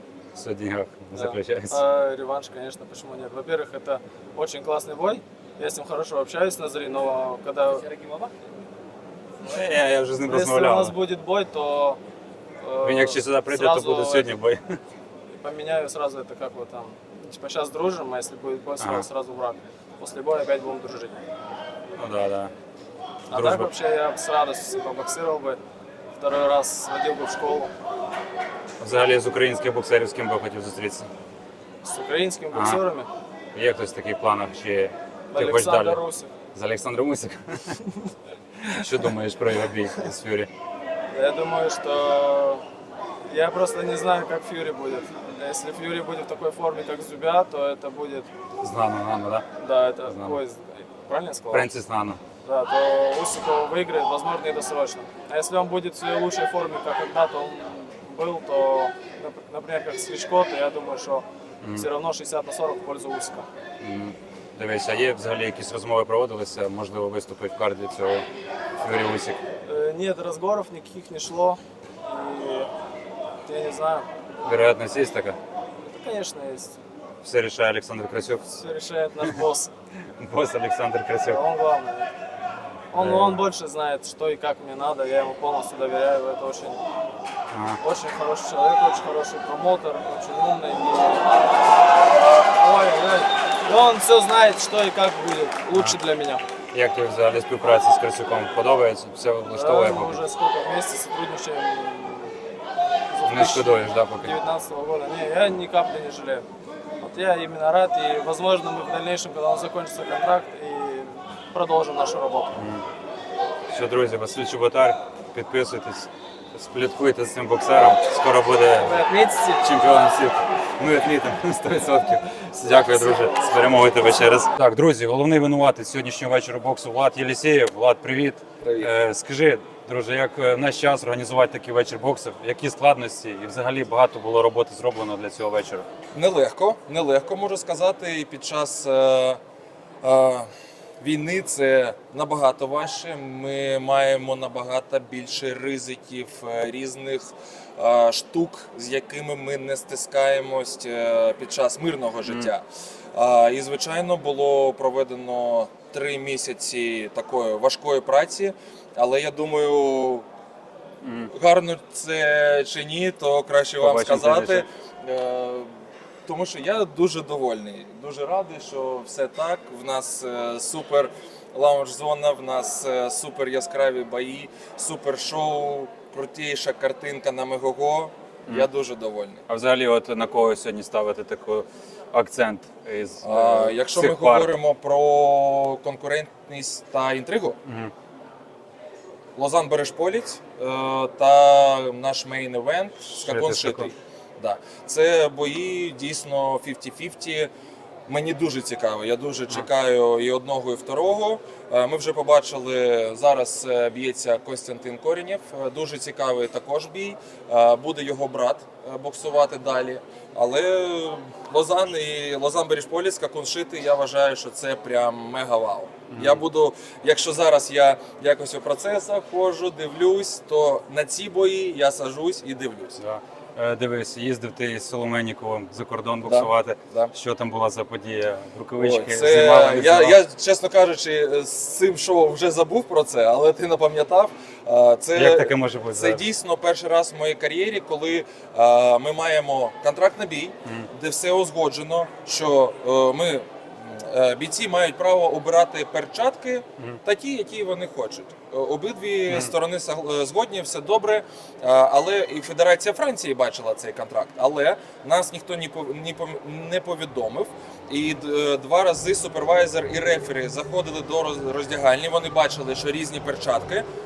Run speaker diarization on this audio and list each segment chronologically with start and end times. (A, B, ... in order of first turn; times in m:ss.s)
0:00.3-0:01.8 A
0:01.1-0:08.3 B
0:09.4-0:10.9 A
0:10.2-0:12.0 B
0:12.6-0:14.3 B
0:12.8-0:14.8 A
0:15.4-0:21.2 B
0:18.8-0:19.0 A
0:22.0-0:22.5 A
0:23.3-0:25.6 B
0:23.3-0:23.7 A
0:26.1-0:27.7 B
0:28.8-0:31.1 A
0:31.8-0:33.1 B
0:32.5-0:32.8 A
0:33.5-0:36.0 A
0:35.3-0:36.3 B
0:36.5-0:37.8 A
0:38.7-0:40.5 A
0:41.1-0:42.6 B
0:43.3-0:48.3 B
0:48.6-0:49.4 A
0:49.6-0:51.7 B
0:50.0-0:50.4 A
0:51.5-0:52.2 A
0:52.4-1:03.5 B
1:03.8-1:08.2 A
1:08.8-1:09.4 A
1:09.6-1:12.7 B
1:13.4-1:14.1 B
1:14.4-1:15.4 A
1:15.8-1:16.8 B
1:17.2-1:18.6 A
1:18.6-1:19.7 B
1:20.2-1:21.4 A
1:21.2-1:22.1 B
1:22.9-1:26.8 B
1:23.0-1:23.4 A
1:27.5-1:27.8 A
1:27.8-1:31.5 B
1:32.6-1:36.4 B
1:36.7-1:40.2 A
1:39.5-1:42.4 B
1:43.1-1:46.4 B
1:43.2-1:44.3 A
1:47.0-1:52.6 B
1:52.5-1:52.8 A
1:53.7-1:59.0 A
1:58.7-1:59.7 B
1:59.6-2:15.8 A
2:02.6-2:04.3 B
2:08.6-2:08.9 C
2:16.1-2:19.4 C
2:20.0-2:20.5 C
2:21.0-2:32.6 C
2:33.1-2:40.2 C
2:41.0-2:41.3 A
2:41.3-2:45.7 C
2:43.8-2:44.7 A
2:46.2-2:59.4 C
2:59.5-3:04.5 A
3:03.2-3:07.6 C
3:07.6-3:07.9 A
3:09.4-3:17.5 C
3:13.1-3:13.9 A
3:18.1-3:43.0 C
3:36.1-3:36.4 A
3:43.0-3:50.2 A
3:46.2-3:47.1 C
3:48.8-4:23.8 C
3:55.1-3:56.2 A